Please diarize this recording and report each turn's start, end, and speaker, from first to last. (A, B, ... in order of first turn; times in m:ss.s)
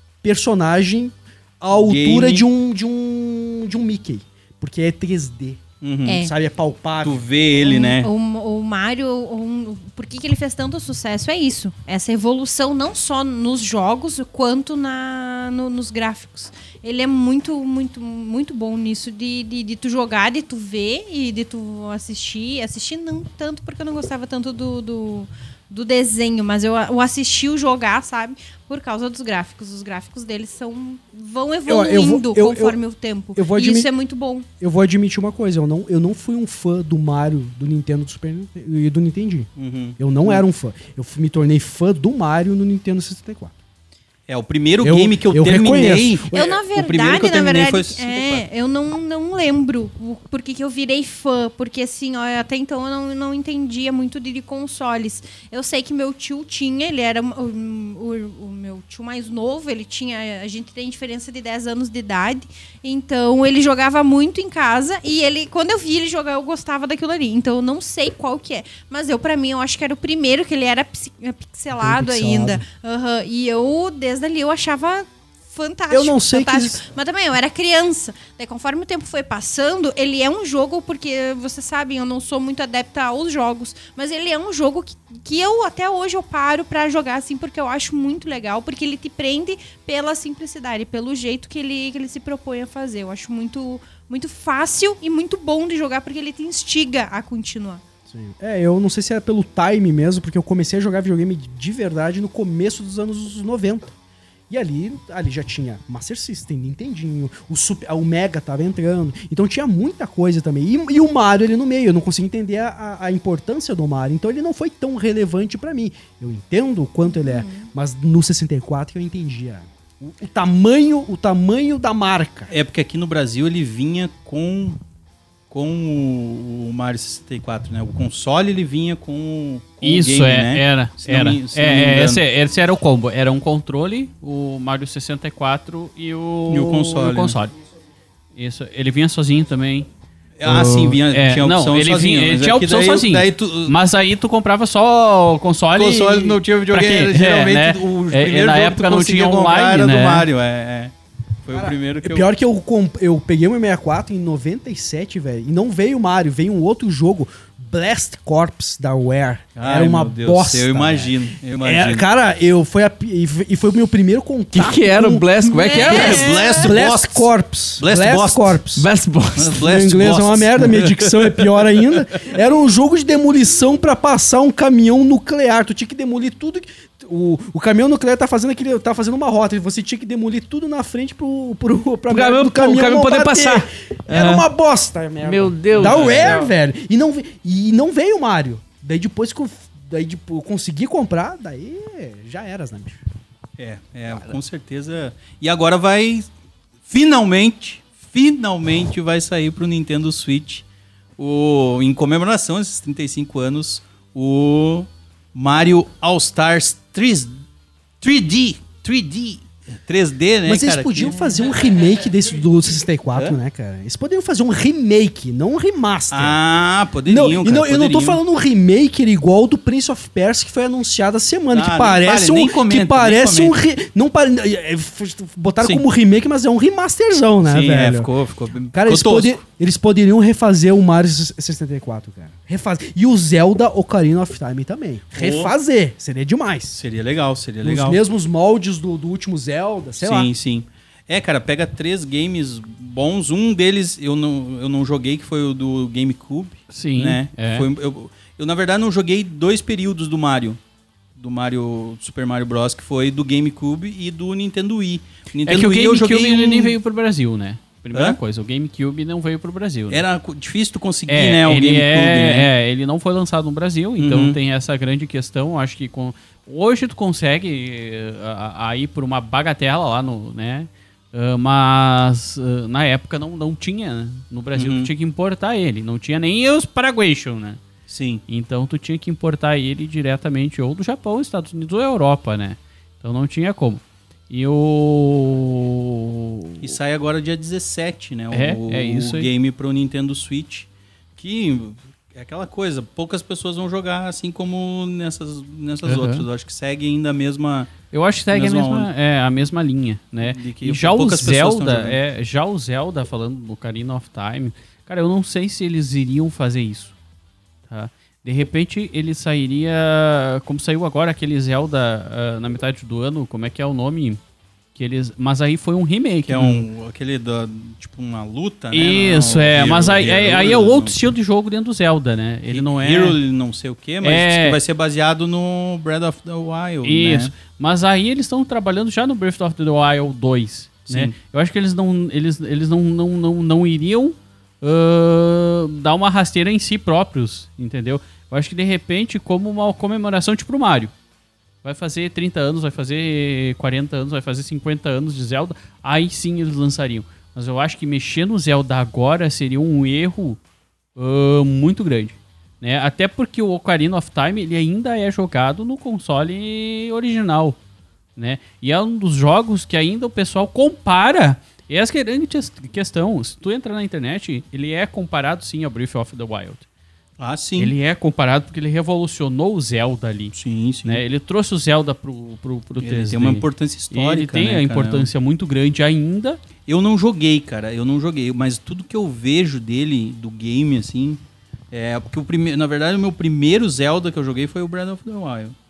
0:00.2-0:07.2 A
0:01.7-0:02.5 B
0:05.8-0:06.2 B
0:06.1-0:06.3 C
0:07.0-0:08.1 B
0:07.6-0:34.5 C
0:31.7-0:32.8 A
0:33.4-0:33.9 A
0:34.6-0:43.5 A
0:39.6-0:40.4 B
0:44.3-0:48.4 B
0:44.8-0:46.4 A
0:46.3-1:37.8 C
1:11.8-1:12.6 A
1:15.9-1:16.8 A
1:38.1-1:43.9 A
1:44.5-2:02.5 A
1:57.0-1:57.7 C
2:02.5-2:04.8 B
2:05.5-2:12.2 B
2:09.8-2:17.5 D
2:16.5-2:17.4 B
2:18.4-2:19.9 D
2:20.4-2:23.7 B
2:20.4-2:30.3 D
2:25.8-2:30.9 B
2:31.4-2:32.3 B
2:31.5-2:48.9 A
2:39.6-2:42.1 B
2:44.5-2:46.3 E
2:45.5-2:46.7 C
2:45.9-2:48.6 B
2:48.8-2:49.7 E
2:49.4-2:51.2 B
2:49.6-3:13.0 A
3:02.1-3:04.4 E
3:05.2-3:06.5 E
3:05.8-3:06.4 B
3:13.6-3:16.3 B
3:16.9-3:20.6 B
3:21.2-3:27.3 B
3:28.0-3:31.2 B
3:30.4-3:36.4 A
3:36.1-3:38.2 B
3:37.1-3:48.1 A
3:41.5-3:43.6 B
3:47.4-3:49.4 B
3:48.7-3:56.8 A
3:55.2-3:55.5 B
3:56.8-3:58.0 B
3:57.6-4:00.3 A
4:00.0-4:10.6 B
4:06.7-4:07.7 D
4:11.2-4:16.8 B
4:15.5-4:20.0 D
4:19.9-4:22.5 B
4:21.1-4:37.6 D
4:24.0-4:24.4 B
4:34.6-4:34.9 B
4:37.9-4:38.2 B
4:38.3-4:46.7 D
4:46.6-4:58.9 B
4:48.3-4:49.3 D
4:55.8-4:56.3 D
4:57.9-5:06.9 D
5:00.2-5:02.0 B
5:07.7-5:14.2 D
5:14.8-5:16.7 D
5:16.3-5:21.0 B
5:18.7-5:23.2 D
5:22.5-5:27.3 B
5:24.0-5:24.6 D
5:26.8-5:40.9 D
5:30.9-5:31.2 B
5:41.6-5:50.4 D
5:51.0-5:57.6 D
5:58.2-6:06.6 D
6:07.2-6:07.8 B
6:07.6-6:16.4 D
6:10.3-6:11.0 B
6:12.8-6:15.1 B
6:16.7-6:21.2 B
6:21.7-6:25.6 B